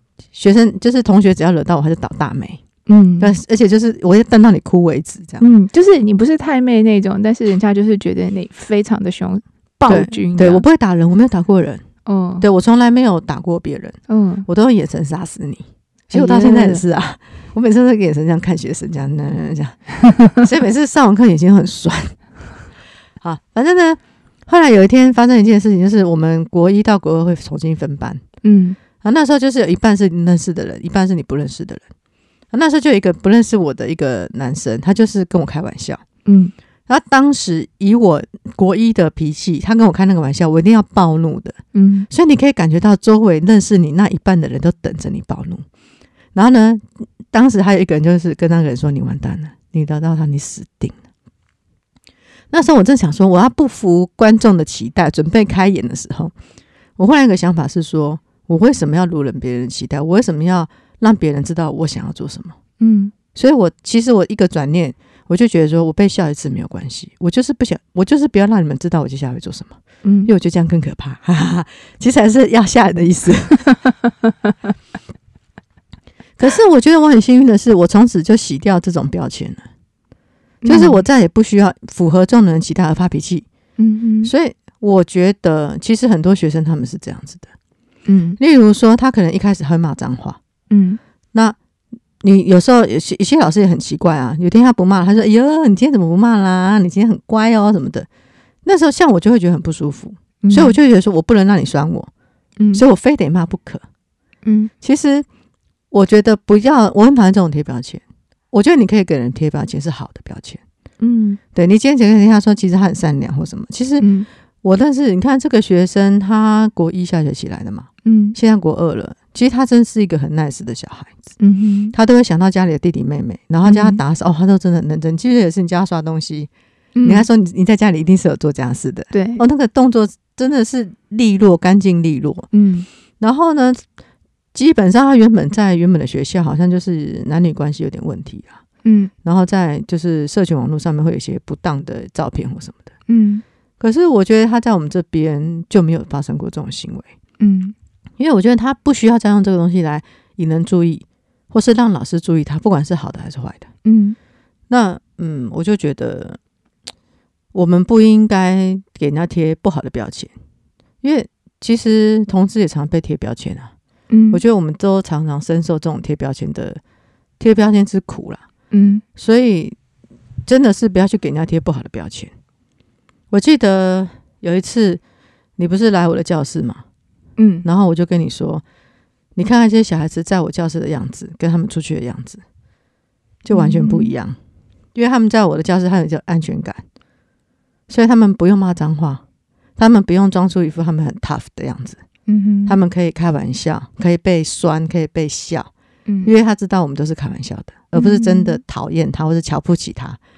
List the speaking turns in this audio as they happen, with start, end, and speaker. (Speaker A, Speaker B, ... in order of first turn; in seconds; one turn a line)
Speaker A: 0.3-2.6
Speaker B: 2.9-3.4
Speaker A: 3.2-5.5
Speaker B: 5.4-10.6
Speaker A: 9.9-11.8
Speaker B: 12.1-12.4
Speaker A: 12.4-13.9
Speaker B: 14.1-14.5
Speaker A: 14.5-19.8
Speaker B: 16.1-16.8
Speaker A: 20.3-22.2
Speaker A: 23.2-28.2
Speaker B: 28.4-28.8
Speaker A: 29.0-31.8
Speaker A: 32.5-36.0
Speaker B: 36.2-36.5
Speaker A: 36.9-41.6
Speaker B: 41.7-42.1
Speaker A: 42.1-45.6
Speaker A: 46.3-51.0
Speaker A: 52.5-56.3
Speaker A: 57.0-62.5
Speaker B: 62.8-63.1
Speaker A: 63.3-73.6
Speaker B: 70.0-70.3
Speaker A: 76.4-79.6
Speaker B: 80.6-81.0
Speaker A: 80.7-83.5
Speaker B: 83.8-84.3
Speaker A: 84.2-87.5
Speaker B: 88.0-88.4
Speaker A: 88.4-90.4
Speaker B: 90.7-91.0
Speaker A: 92.2-98.1
Speaker A: 98.6-102.1
Speaker B: 100.4-100.8
Speaker B: 102.6-102.8
Speaker A: 102.7-103.8
Speaker B: 104.4-104.7
Speaker A: 104.8-105.2
Speaker A: 105.9-110.6
Speaker B: 111.0-111.4
Speaker A: 111.5-114.1
Speaker B: 114.0-114.3
Speaker A: 114.6-121.1
Speaker B: 118.0-118.3
Speaker B: 121.4-122.0
Speaker A: 121.9-126.5
Speaker B: 123.6-124.0
Speaker B: 127.0-127.2
Speaker A: 127.0-132.5
Speaker B: 129.1-129.4
Speaker B: 132.5-132.9
Speaker A: 133.2-133.8
Speaker A: 134.5-138.5
Speaker B: 138.8-139.1
Speaker A: 139.2-142.9
Speaker B: 143.1-143.4
Speaker A: 143.8-147.1
Speaker B: 147.4-147.7
Speaker A: 148.2-153.7
Speaker B: 153.8-154.2
Speaker A: 154.7-156.4
Speaker A: 157.5-160.3
Speaker A: 161.0-163.7
Speaker B: 164.1-164.4
Speaker A: 164.3-166.8
Speaker A: 167.4-168.4
Speaker B: 168.7-169.0
Speaker A: 169.2-169.8
Speaker A: 170.4-172.3
Speaker A: 173.3-175.0
Speaker A: 175.6-176.8
Speaker B: 177.4-177.7
Speaker A: 177.6-178.6
Speaker A: 179.3-182.4
Speaker A: 183.4-184.4
Speaker B: 183.5-184.1
Speaker A: 184.9-186.8
Speaker A: 187.9-189.2
Speaker A: 189.8-192.0
Speaker B: 192.3-192.8
Speaker A: 192.7-195.7
Speaker B: 196.1-196.3
Speaker A: 196.2-200.2
Speaker B: 197.9-198.6